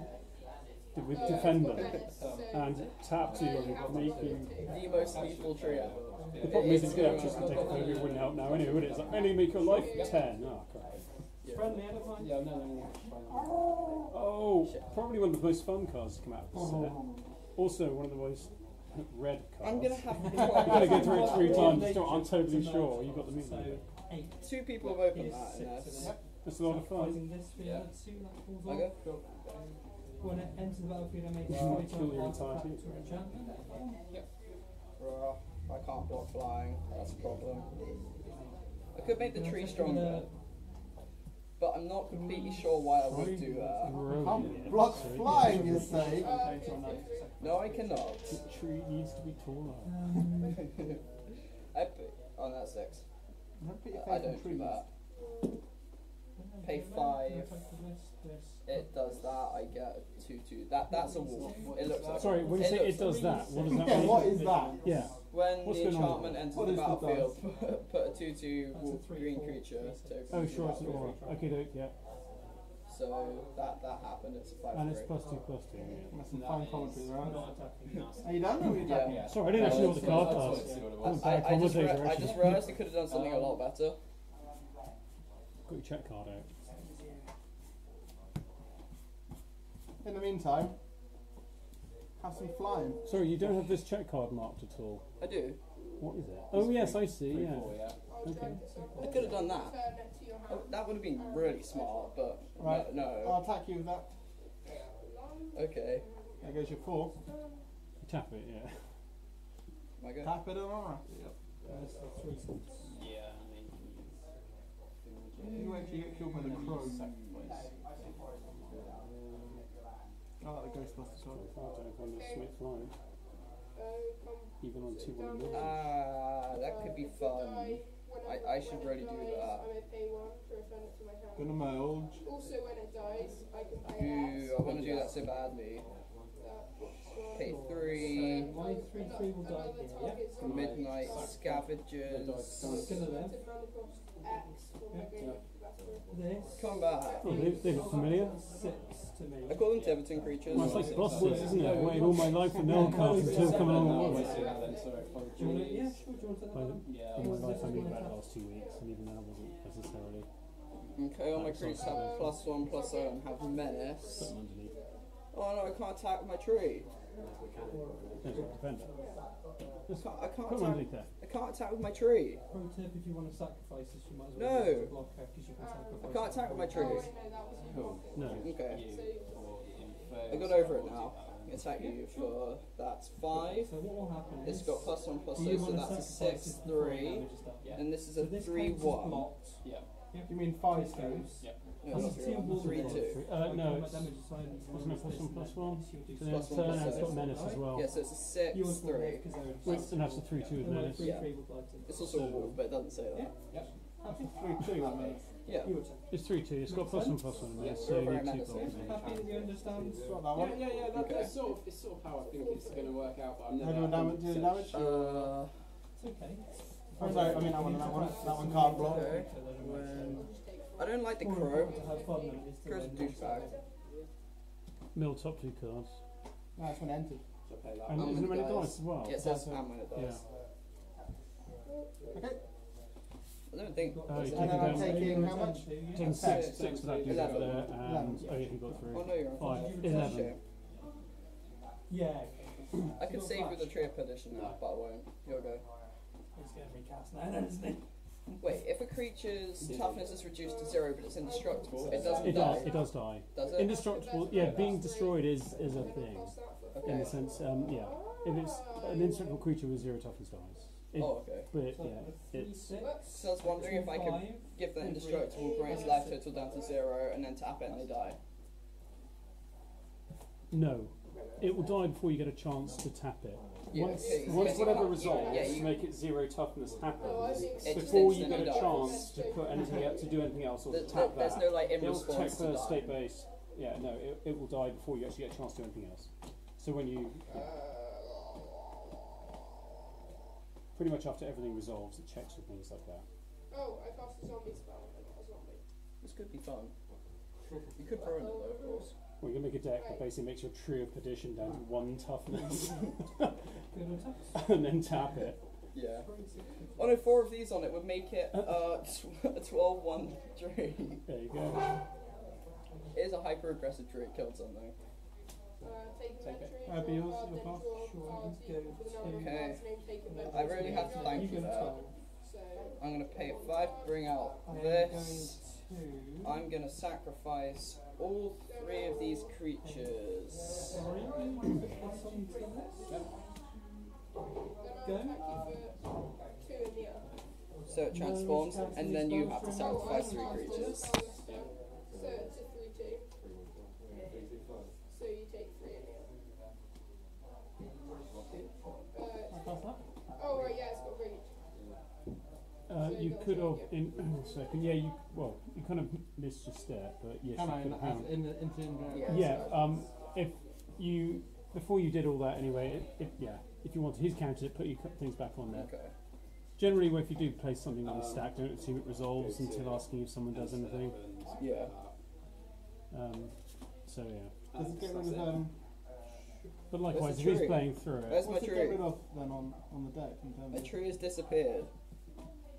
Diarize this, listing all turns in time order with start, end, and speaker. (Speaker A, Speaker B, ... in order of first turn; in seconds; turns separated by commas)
Speaker A: 0.9-4.8, Speaker B: 1.1-5.3, Speaker C: 2.1-2.5, Speaker C: 3.2-4.2, Speaker D: 4.6-8.3, Speaker C: 4.7-10.0, Speaker A: 6.4-11.0, Speaker E: 7.3-8.2, Speaker B: 9.6-10.5, Speaker D: 9.9-10.2, Speaker D: 11.4-11.9, Speaker E: 11.5-12.5, Speaker C: 12.2-13.7, Speaker F: 13.3-14.1, Speaker A: 14.1-17.0, Speaker D: 14.6-14.9, Speaker F: 16.5-17.3, Speaker A: 17.6-23.8, Speaker D: 19.6-21.9, Speaker E: 20.2-28.9, Speaker D: 24.4-26.1, Speaker A: 26.4-27.3, Speaker C: 27.6-27.9, Speaker D: 28.6-28.9, Speaker C: 29.0-29.6, Speaker E: 30.2-33.9, Speaker A: 31.5-32.9, Speaker D: 35.0-37.7, Speaker E: 38.2-40.3, Speaker D: 38.9-40.3, Speaker D: 41.6-44.0, Speaker E: 42.1-48.0, Speaker A: 43.8-47.1, Speaker F: 44.1-46.3, Speaker B: 46.1-48.3, Speaker D: 46.9-48.4, Speaker A: 48.3-50.3, Speaker E: 49.8-50.8, Speaker D: 50.6-51.0, Speaker D: 51.7-53.0, Speaker F: 53.6-54.8, Speaker D: 53.9-54.9, Speaker B: 55.1-55.6, Speaker E: 56.4-58.9, Speaker D: 56.6-57.5, Speaker D: 58.6-63.2, Speaker E: 60.9-65.1, Speaker C: 61.7-62.4, Speaker A: 62.1-66.5, Speaker F: 63.7-64.8, Speaker D: 65.3-71.1, Speaker F: 66.5-67.4, Speaker E: 68.7-71.6, Speaker A: 70.3-71.9, Speaker D: 72.9-75.1, Speaker A: 74.7-76.1, Speaker F: 76.1-77.5, Speaker C: 76.3-81.4, Speaker E: 77.1-78.4, Speaker F: 78.2-79.9, Speaker A: 78.7-82.8, Speaker D: 78.8-84.0, Speaker E: 79.8-80.9, Speaker C: 82.2-83.6, Speaker A: 85.7-86.5, Speaker E: 86.8-87.3, Speaker F: 90.0-90.8, Speaker F: 92.2-93.0, Speaker B: 92.3-93.1, Speaker A: 93.0-95.0, Speaker D: 95.2-95.6, Speaker A: 96.0-98.6, Speaker C: 96.5-98.0, Speaker B: 98.0-102.9, Speaker E: 98.7-99.5, Speaker D: 99.0-99.8, Speaker D: 100.5-103.4, Speaker F: 102.6-104.1, Speaker B: 104.7-107.6, Speaker D: 105.5-106.0, Speaker F: 106.4-107.1, Speaker A: 108.0-108.8, Speaker D: 110.0-110.4, Speaker F: 110.2-111.0, Speaker C: 111.1-111.9, Speaker E: 111.7-112.9, Speaker C: 112.8-114.2, Speaker C: 115.0-119.7, Speaker B: 115.4-116.0, Speaker D: 115.5-117.3, Speaker F: 115.5-117.1, Speaker F: 120.4-121.4, Speaker A: 121.3-122.9, Speaker B: 122.0-122.5, Speaker B: 123.8-125.9, Speaker A: 124.6-125.8, Speaker D: 125.5-129.7, Speaker B: 126.5-135.1, Speaker F: 131.3-132.2, Speaker D: 133.9-135.8, Speaker C: 134.6-135.2, Speaker B: 136.4-141.3, Speaker D: 137.3-138.5, Speaker E: 137.3-140.3, Speaker C: 140.4-143.1, Speaker D: 140.4-143.0, Speaker E: 142.6-143.4, Speaker B: 142.6-148.3, Speaker E: 144.9-145.3, Speaker C: 145.2-145.4, Speaker E: 146.1-149.7, Speaker D: 146.6-147.3, Speaker A: 147.2-148.4, Speaker D: 149.4-151.1, Speaker C: 149.7-156.0, Speaker A: 150.5-154.5, Speaker E: 150.5-158.3, Speaker B: 153.3-155.3, Speaker A: 156.5-160.3, Speaker C: 156.9-157.6, Speaker B: 157.5-158.9, Speaker D: 160.9-164.3, Speaker A: 161.3-162.5, Speaker B: 161.8-165.0, Speaker A: 164.2-164.7, Speaker D: 165.3-166.9, Speaker C: 167.2-168.6, Speaker A: 168.2-168.9, Speaker B: 168.9-169.2, Speaker A: 169.9-171.1, Speaker D: 170.0-172.4, Speaker E: 172.5-177.2, Speaker D: 174.3-174.9, Speaker B: 175.6-179.7, Speaker D: 176.0-177.1, Speaker C: 177.7-181.6, Speaker A: 178.1-178.6, Speaker D: 178.4-178.8, Speaker D: 180.3-183.8, Speaker E: 181.6-182.4, Speaker E: 183.3-202.1, Speaker D: 184.4-189.3, Speaker C: 187.6-187.9, Speaker C: 189.6-189.9, Speaker F: 190.3-191.3, Speaker C: 191.4-191.8, Speaker D: 191.8-193.2, Speaker A: 192.0-198.0, Speaker D: 196.2-197.2, Speaker D: 197.7-199.3, Speaker C: 199.6-200.8, Speaker A: 199.6-201.3, Speaker D: 201.0-203.3, Speaker A: 202.0-202.6, Speaker E: 204.0-204.9, Speaker F: 204.1-205.2, Speaker A: 204.6-205.2, Speaker D: 205.4-205.7, Speaker E: 205.6-207.5, Speaker A: 206.1-209.0, Speaker C: 207.6-208.0, Speaker D: 207.8-208.7, Speaker E: 208.5-210.1, Speaker C: 208.6-214.9, Speaker F: 210.0-210.9, Speaker D: 210.9-211.3, Speaker B: 211.0-211.7, Speaker B: 212.2-213.2, Speaker F: 213.6-215.3, Speaker D: 214.7-215.6, Speaker E: 216.0-220.3, Speaker F: 216.9-219.2, Speaker B: 217.3-219.0, Speaker D: 218.7-220.2, Speaker B: 219.9-222.5, Speaker D: 220.8-222.1, Speaker E: 221.2-223.6, Speaker D: 222.6-223.6, Speaker B: 223.1-223.6, Speaker A: 224.9-226.0, Speaker F: 226.6-227.2, Speaker C: 227.5-228.3, Speaker A: 227.9-229.4, Speaker D: 228.0-230.2, Speaker F: 229.1-229.6, Speaker A: 229.9-230.2, Speaker B: 231.7-231.9, Speaker D: 233.5-234.8, Speaker E: 233.7-236.4, Speaker A: 234.1-235.3, Speaker F: 234.3-236.5, Speaker A: 235.9-240.4, Speaker D: 236.1-237.7, Speaker C: 236.3-237.8, Speaker F: 237.8-238.4, Speaker D: 238.9-240.4, Speaker E: 239.4-240.3, Speaker E: 241.9-243.9, Speaker D: 243.0-245.6, Speaker C: 244.3-244.6, Speaker E: 246.3-247.8, Speaker D: 248.4-252.8, Speaker C: 249.6-250.1, Speaker B: 250.1-259.5, Speaker C: 251.7-252.6, Speaker A: 252.0-262.8, Speaker D: 253.3-254.8, Speaker D: 256.7-257.2, Speaker D: 261.0-261.5, Speaker E: 261.6-266.4, Speaker B: 262.8-263.3, Speaker D: 263.1-268.2, Speaker B: 265.3-266.8, Speaker A: 270.5-287.5, Speaker D: 273.7-275.7, Speaker B: 274.0-276.0, Speaker B: 277.0-280.4, Speaker D: 277.6-279.1, Speaker D: 280.7-283.0, Speaker B: 282.6-282.9, Speaker B: 287.3-288.6, Speaker A: 290.8-293.1, Speaker B: 293.5-295.6, Speaker D: 296.0-296.7, Speaker D: 297.8-298.8, Speaker B: 298.0-298.9, Speaker A: 299.2-303.4, Speaker B: 299.7-300.1, Speaker E: 303.7-304.4, Speaker A: 304.3-305.4, Speaker D: 305.7-306.1, Speaker E: 306.0-307.0, Speaker D: 306.8-311.0, Speaker A: 311.1-311.7, Speaker D: 312.9-314.8, Speaker B: 315.6-324.2, Speaker C: 316.2-316.5, Speaker F: 316.6-317.7, Speaker E: 317.7-321.9, Speaker D: 319.2-319.6, Speaker D: 320.3-321.8, Speaker D: 322.8-325.4, Speaker E: 324.4-326.4, Speaker D: 326.2-330.8, Speaker B: 328.5-329.3, Speaker E: 329.6-329.9, Speaker E: 330.4-333.1, Speaker B: 330.7-333.0, Speaker B: 334.4-337.1, Speaker E: 334.8-335.3, Speaker D: 337.7-341.0, Speaker E: 337.9-341.2, Speaker B: 339.4-343.1, Speaker B: 344.9-346.1, Speaker B: 348.9-349.4, Speaker E: 349.3-349.8, Speaker B: 350.2-351.3, Speaker A: 352.7-358.4, Speaker B: 352.7-354.7, Speaker F: 357.3-359.3, Speaker D: 358.9-359.4, Speaker B: 359.0-359.9, Speaker A: 359.1-365.7, Speaker D: 365.5-365.9, Speaker A: 366.6-371.0, Speaker C: 367.8-368.4, Speaker C: 369.1-371.9, Speaker D: 371.4-371.7, Speaker A: 372.9-374.5, Speaker C: 374.5-375.4, Speaker F: 374.6-375.5, Speaker A: 376.7-378.3, Speaker D: 376.9-378.9, Speaker F: 378.2-380.7, Speaker D: 380.5-381.7